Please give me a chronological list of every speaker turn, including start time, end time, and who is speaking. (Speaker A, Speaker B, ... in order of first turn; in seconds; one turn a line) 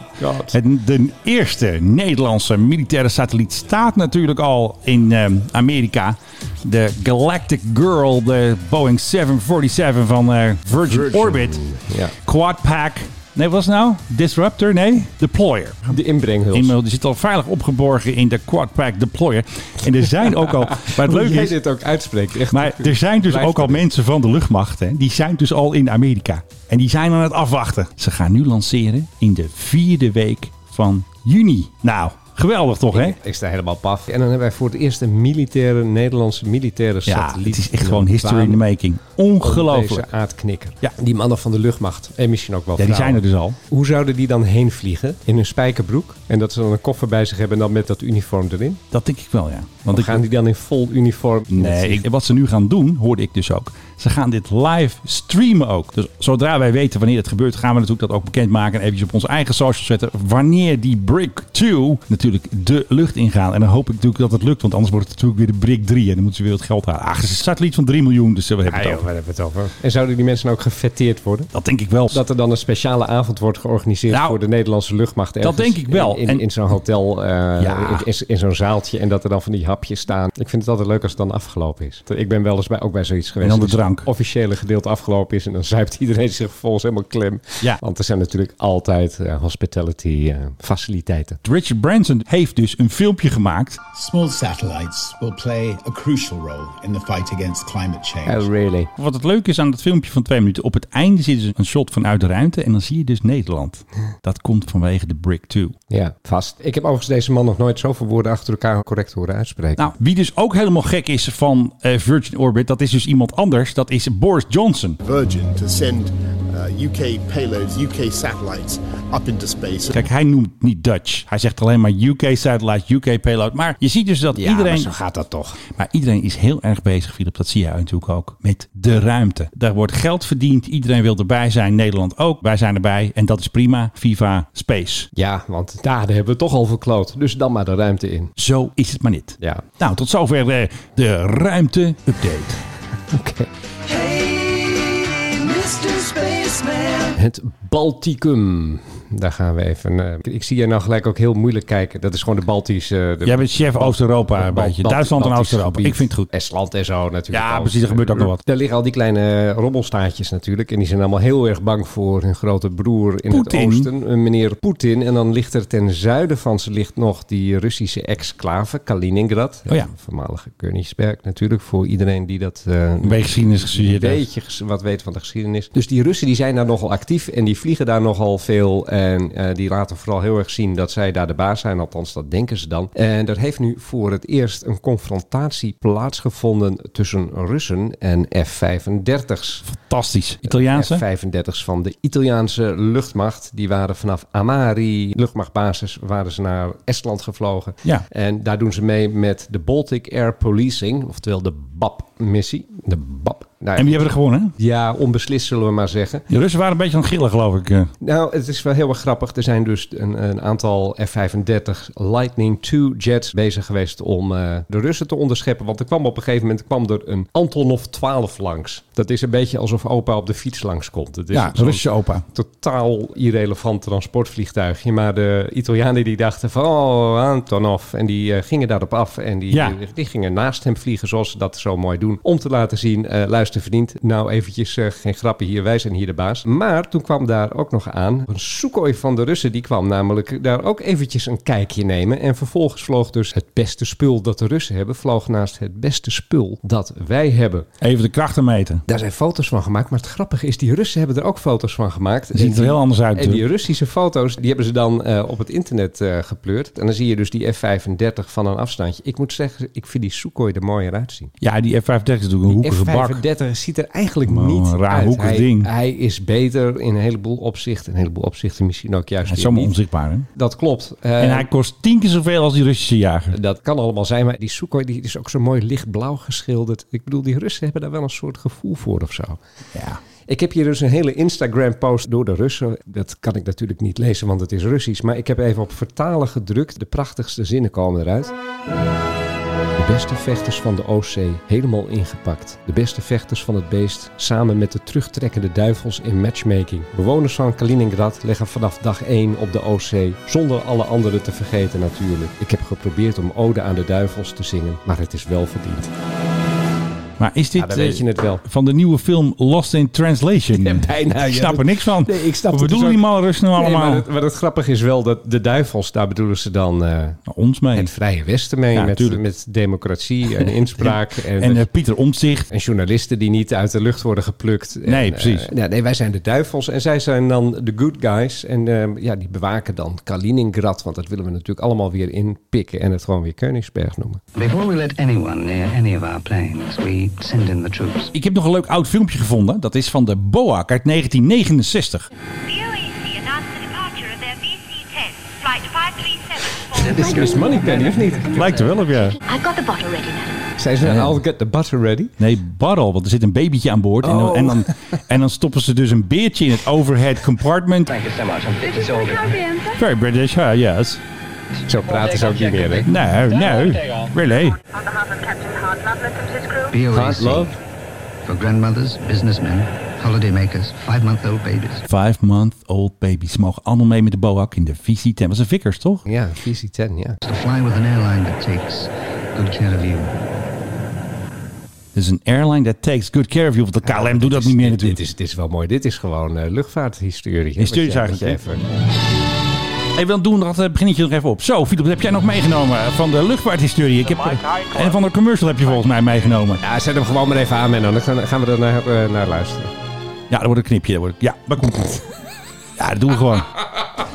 Speaker A: 0.2-0.5
Speaker B: 0.5-11.6
Speaker A: 10.8-12.1
Speaker B: 12.2-15.9
Speaker A: 15.9-16.7
Speaker B: 16.5-21.6
Speaker A: 20.7-23.8
Speaker B: 22.5-33.2
Speaker A: 32.9-38.6
Speaker B: 37.0-40.1
Speaker A: 39.4-48.8
Speaker B: 42.8-43.6
Speaker B: 48.9-50.2
Speaker A: 49.9-52.0
Speaker B: 51.5-69.0
Speaker A: 68.7-71.5
Speaker B: 71.5-72.2
Speaker A: 72.1-91.4
Speaker B: 74.1-74.4
Speaker B: 75.4-76.4
Speaker B: 77.6-78.0
Speaker B: 83.4-84.1
Speaker B: 91.4-93.8
Speaker A: 98.2-98.9
Speaker B: 99.0-105.8
Speaker A: 105.9-109.9
Speaker B: 109.8-115.0
Speaker C: 115.0-120.0
Speaker B: 119.9-124.9
Speaker A: 124.3-125.6
Speaker B: 125.7-135.1
Speaker A: 135.1-138.3
Speaker B: 138.4-142.6
Speaker A: 143.1-143.5
Speaker A: 147.1-189.6
Speaker B: 153.2-156.3
Speaker B: 157.3-158.4
Speaker B: 163.3-163.9
Speaker B: 173.0-174.2
Speaker B: 189.7-191.0
Speaker A: 190.5-206.2
Speaker B: 203.8-204.5
Speaker B: 206.3-207.9
Speaker A: 208.0-247.7
Speaker B: 221.3-222.2
Speaker B: 229.5-229.8
Speaker B: 247.8-248.8
Speaker A: 248.9-261.3
Speaker B: 252.3-253.4
Speaker B: 261.4-263.2
Speaker A: 262.5-269.7
Speaker B: 264.2-265.7
Speaker B: 269.2-270.3
Speaker A: 270.3-271.5
Speaker B: 271.2-273.3
Speaker A: 273.3-279.4
Speaker B: 279.7-280.0
Speaker A: 280.3-288.3
Speaker A: 289.8-305.9
Speaker B: 307.2-314.1
Speaker A: 307.6-308.4
Speaker A: 310.5-317.2
Speaker B: 317.3-317.9
Speaker A: 317.7-321.7
Speaker B: 318.7-319.2
Speaker B: 320.3-322.4
Speaker A: 322.5-334.2
Speaker B: 324.9-325.5
Speaker D: 334.3-338.1
Speaker B: 338.1-342.1
Speaker E: 342.4-350.4
Speaker A: 346.8-348.7
Speaker B: 348.3-349.2
Speaker A: 350.6-352.1
Speaker B: 350.8-351.2
Speaker B: 352.2-357.9
Speaker A: 354.0-354.7
Speaker D: 357.9-359.6
Speaker E: 359.4-359.7
Speaker B: 359.7-361.0
Speaker A: 361.7-362.9
Speaker B: 362.8-364.6
Speaker E: 364.9-366.7
Speaker D: 366.7-367.5
Speaker A: 366.9-367.5
Speaker D: 368.2-371.8
Speaker B: 371.9-376.0
Speaker A: 376.1-377.2
Speaker D: 377.2-380.1
Speaker B: 381.9-385.0
Speaker A: 383.8-388.6
Speaker B: 387.6-388.4
Speaker B: 389.9-396.6
Speaker A: 396.6-399.7
Speaker B: 400.3-402.0
Speaker B: 402.8-403.6